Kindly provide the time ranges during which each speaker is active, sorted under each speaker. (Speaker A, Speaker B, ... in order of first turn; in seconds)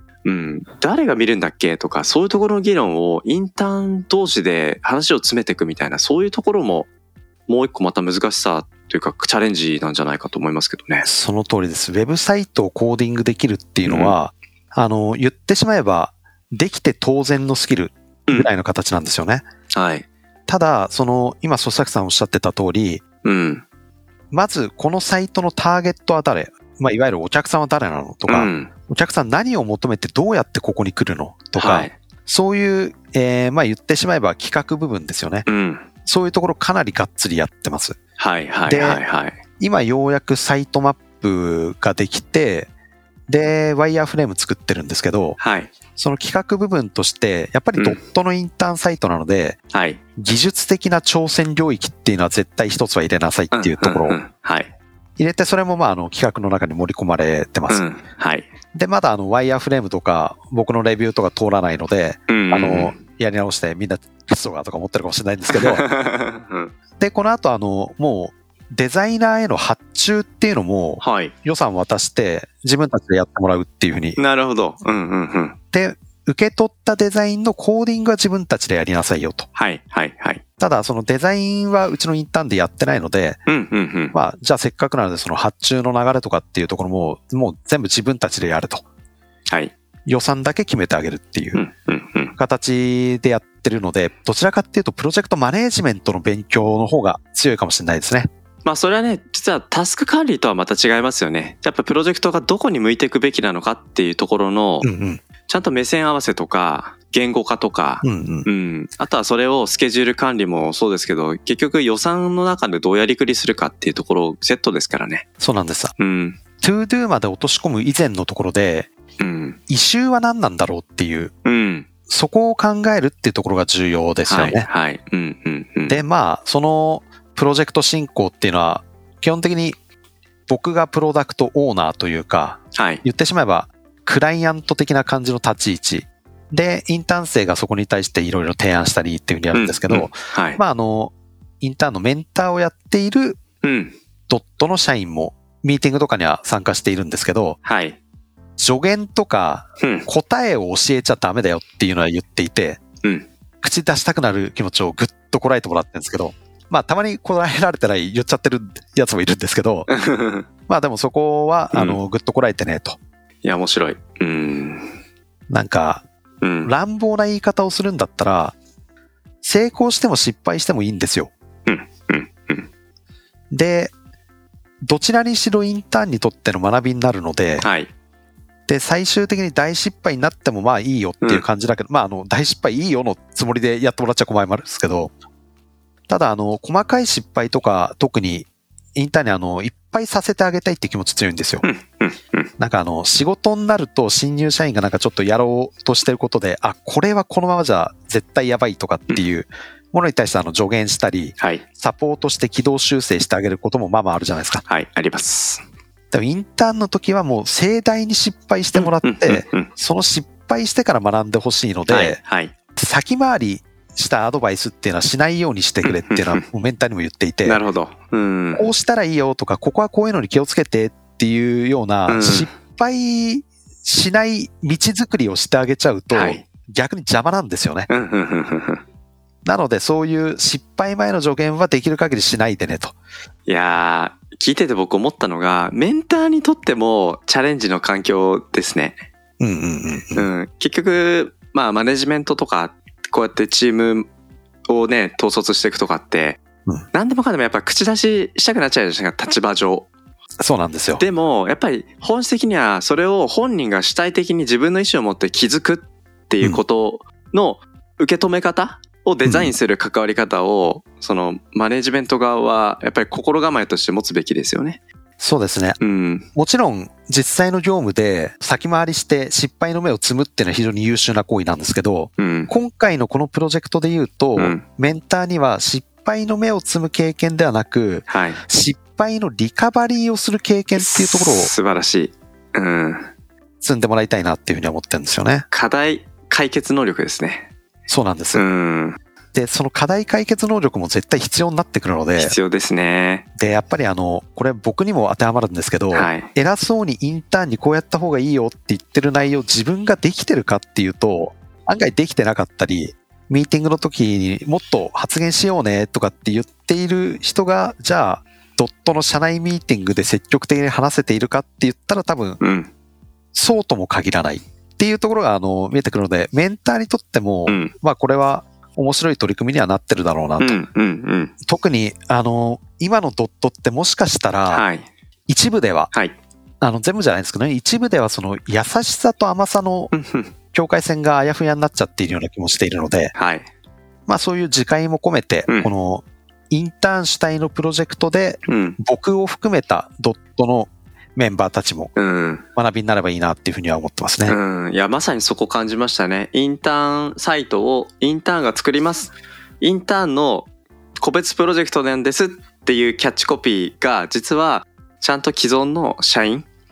Speaker A: 0.2-6.9, 7.5-11.1, 13.8-14.2, 19.7-20.1, 23.2-23.6, 28.3-28.7, 31.6-31.9, 35.5-35.9, 38.2-39.4, 45.4-45.7, 49.7-50.0, 53.5-54.7, 57.7-58.5, 62.3-63.0, 65.5-66.7, 71.0-71.3, 74.2-75.6, 79.5-80.4, 83.5-84.1, 91.5-92.3, 98.6-104.9, 105.5-115.2, 116.0-116.4, 119.2-119.6, 121.4-121.9, 124.3-126.0, 132.7-133.0, 139.5-140.6, 143.6-143.9, 147.6-148.0, 149.8-150.1, 153.0-153.3, 159.9-160.4, 161.7-162.0, 163.4-164.9, 166.4-166.7, 171.7-172.7, 177.6-177.9, 191.6-192.5, 201.4-201.6, 204.7-205.6, 208.7-209.7, 211.9-212.5, 215.8-216.4, 217.4-218.7, 222.1-222.5, 226.1-226.4, 227.9-228.8, 233.5-239.0, 240.1-244.0, 244.7-246.4, 246.9-249.9, 251.0-264.8, 265.8-266.3, 272.2-272.5, 274.4-274.6, 278.1-278.4, 280.8-283.1, 285.5-287.5, 288.3-289.0, 292.2-293.2, 295.9-296.3, 312.4-312.7, 317.5-317.7, 320.4-321.3, 324.5-324.9, 329.9-330.3, 333.1-333.4, 338.5-338.8, 341.9-342.4, 344.3-350.5, 351.0-356.5
Speaker B: 11.0-19.4, 20.5-23.0, 24.3-35.5, 36.0-38.0, 38.6-39.0, 39.6-42.7, 43.3-45.4, 46.0-49.6, 50.2-54.2, 55.2-57.8, 58.7-65.8, 67.0-74.2, 75.7-79.5, 80.6-83.4, 84.1-88.8, 90.0-91.6, 92.4-98.3, 104.8-105.2, 108.0-108.5, 115.4-115.9, 116.6-118.9, 119.7-121.3, 122.1-124.7, 125.9-129.8, 130.5-143.4, 144.3-147.6, 148.6-152.8, 153.6-159.9, 160.7-163.0, 165.5-166.0, 166.6-168.6, 169.4-171.3, 173.5-173.9, 174.8-177.7, 178.7-185.1, 186.1-191.7, 192.6-204.6, 206.1-212.2, 212.8-217.6, 218.6-227.9, 229.4-232.9, 239.4-240.2, 250.4-251.0, 259.2-259.5, 265.2-265.8, 266.3-281.5, 283.6-285.4, 287.9-288.4, 289.3-292.4, 293.4-312.4, 313.3-320.6, 321.4-324.6, 325.3-325.9, 326.6-329.9, 330.5-333.1, 334.1-341.9, 342.6-344.4